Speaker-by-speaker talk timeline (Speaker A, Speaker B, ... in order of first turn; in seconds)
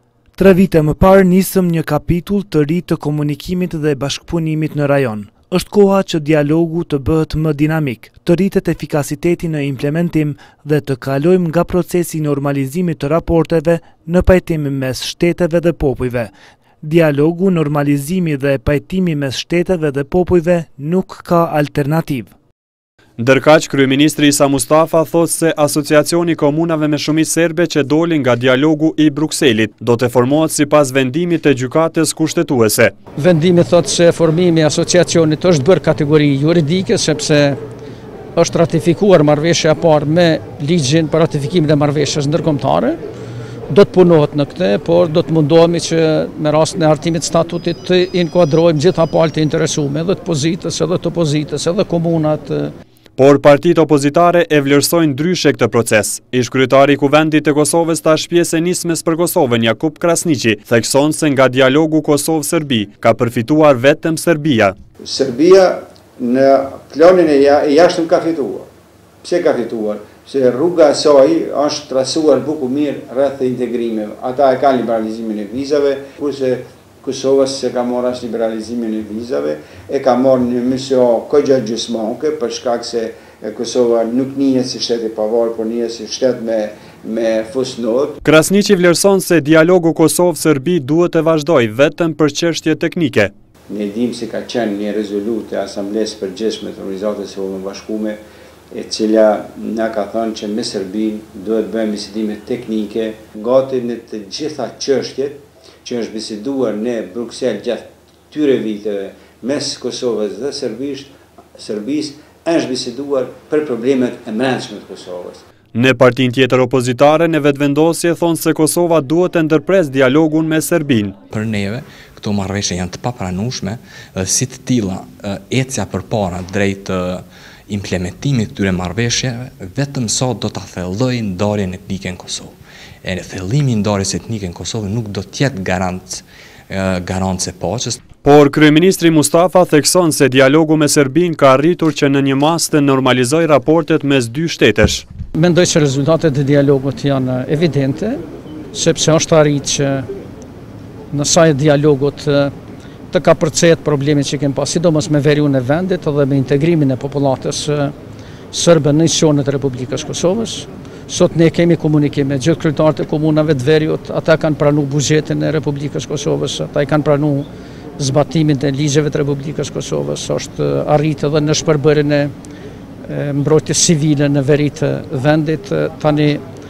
Speaker A: 0.4-22.3
Speaker B: 23.2-32.9, 53.2-64.8, 88.2-93.3, 115.7-121.2, 138.2-145.1
Speaker C: 33.2-37.6, 38.4-43.0, 43.7-52.7, 145.3-148.2, 148.7-150.1, 151.1-152.5, 153.1-157.9, 158.5-172.3, 173.1-176.4
Speaker D: 65.0-68.7, 69.2-88.2, 93.7-98.2, 98.7-115.4
Speaker E: 121.3-138.0